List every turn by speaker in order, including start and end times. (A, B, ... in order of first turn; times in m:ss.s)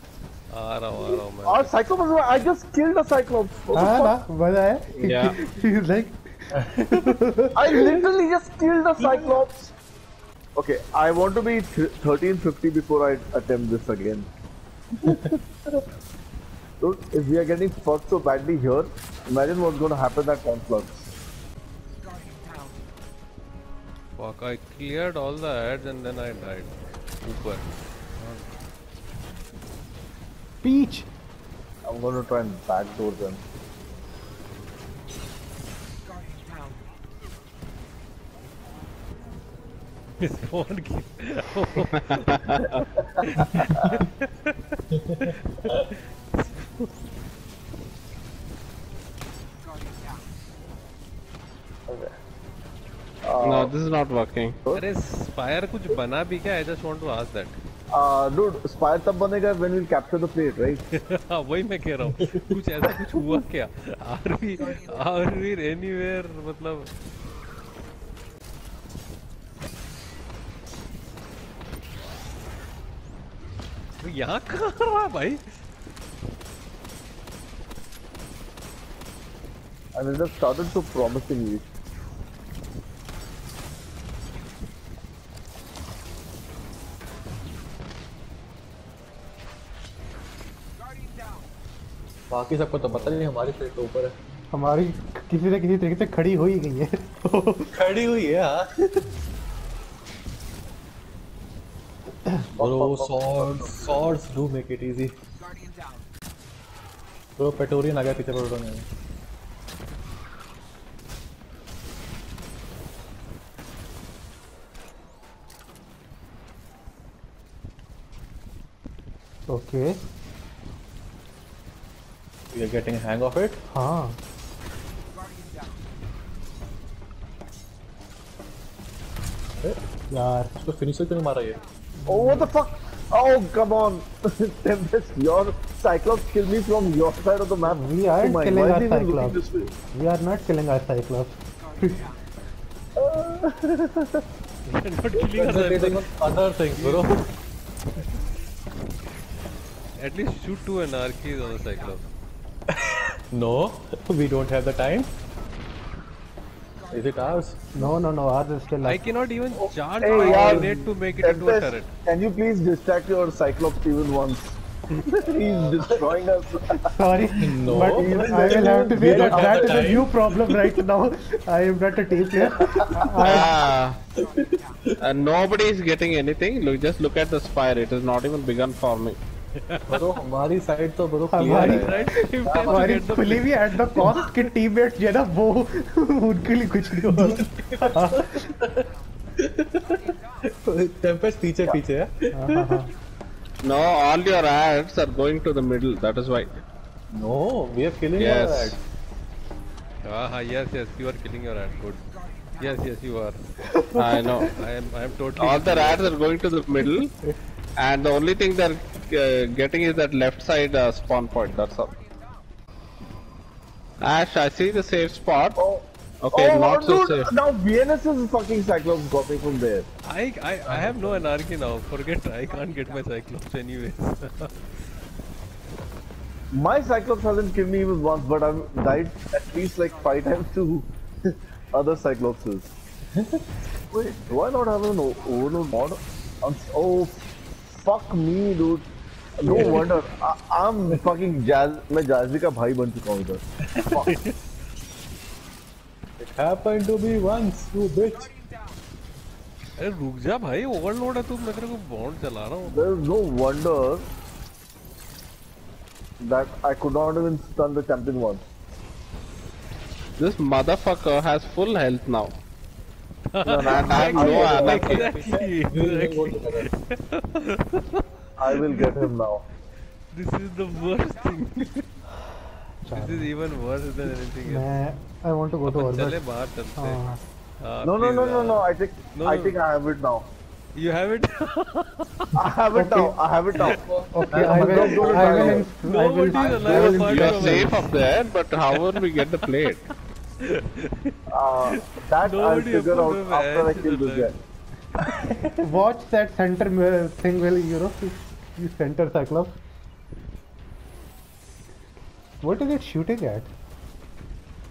0:00.5-0:01.7 A
0:01.0-0:04.1 B
0:03.7-0:07.7 C
0:05.0-0:05.4 D
0:06.5-0:06.8 E
0:07.5-0:09.7 B
0:09.0-0:09.4 E
0:10.6-0:14.3 B
0:15.0-0:15.3 E
0:16.8-0:21.1 B
0:24.2-0:27.6 A
0:28.2-0:28.5 A
0:30.6-0:31.1 C
0:31.8-0:33.4 B
0:40.2-0:42.7 A
0:43.2-0:46.9 A
0:51.9-0:52.1 B
0:53.2-0:53.8 B
0:53.4-0:54.6 D
0:54.8-0:57.6 A
0:57.9-1:00.8 B
1:01.0-1:06.9 A
1:02.1-1:02.4 E
1:14.0-1:15.4 A
1:19.9-1:21.6 B
1:32.3-1:34.1 E
1:34.5-1:37.7 C
1:37.7-1:39.0 E
1:42.6-1:43.1 B
1:42.6-1:45.1 E
1:43.8-1:44.1 B
1:47.4-1:48.8 E
1:59.5-2:00.0 C
2:02.5-2:03.6 E
2:03.7-2:04.2 C
2:10.1-2:10.5 C
2:10.6-2:11.6 E
2:12.0-2:12.5 C
2:12.1-2:19.7 B
2:17.6-2:22.0 C
2:23.0-2:24.1 B
2:24.6-2:26.0 A
2:25.3-2:27.2 E
2:26.8-2:27.1 A
2:30.0-2:32.0 A
2:32.7-2:35.1 E
2:36.9-2:37.7 E
2:37.8-2:39.0 C
2:38.8-2:41.9 A
2:39.6-2:46.8 B
2:40.1-2:40.5 E
2:46.8-2:53.5 C
2:47.4-2:50.8 E
2:47.7-2:49.9 B
2:52.4-2:53.4 E
2:53.2-2:54.0 D
2:54.2-2:54.9 E
2:55.0-2:59.2 D
2:59.7-3:00.0 A
2:59.9-3:02.9 E
3:01.3-3:08.4 C
3:01.6-3:03.5 A
3:04.0-3:04.3 E
3:06.9-3:08.9 E
3:09.4-3:12.8 E
3:12.4-3:12.9 C
3:13.6-3:16.6 D
3:17.1-3:18.8 E
3:18.2-3:18.8 D
3:20.0-3:22.0 A
3:22.6-3:23.4 A
3:23.8-3:24.5 C
3:24.0-3:24.5 D
3:24.5-3:26.1 A
3:25.4-3:27.1 D
3:27.8-3:32.0 D
3:34.0-3:35.6 D
3:35.6-3:39.9 B
3:36.2-3:37.3 D
3:40.1-3:44.5 A
3:40.6-3:41.2 E
3:46.5-3:52.7 B
3:53.2-3:53.4 E
3:53.9-3:58.9 B
3:59.4-4:04.1 B
3:59.5-4:00.0 E
4:03.8-4:04.0 E
4:06.2-4:08.3 E
4:09.8-4:12.9 A
4:12.7-4:14.0 B
4:16.2-4:18.4 B
4:20.2-4:22.3 D
4:23.3-4:28.0 A
4:23.4-4:24.9 B
4:23.6-4:25.0 D
4:24.0-4:26.7 E
4:28.4-4:29.4 B
4:30.1-4:31.8 A
4:32.8-4:33.3 C
4:32.9-4:34.8 A
4:34.4-4:36.2 C
4:35.7-4:37.0 A
4:36.8-4:37.2 C
4:37.6-4:39.6 A
4:37.8-4:40.2 B
4:40.8-4:42.3 A
4:42.3-4:43.8 B
4:42.8-4:43.2 C
4:43.6-4:45.6 E
4:44.1-4:47.8 C
4:44.5-4:45.7 B
4:45.8-4:48.0 A
4:46.3-4:46.8 B
4:46.6-4:49.8 D
4:48.7-4:49.2 A
4:50.5-4:51.1 A
4:51.3-4:54.3 B
4:52.2-4:54.3 A
4:55.2-4:55.5 E
4:55.6-4:59.6 C
5:02.4-5:03.5 C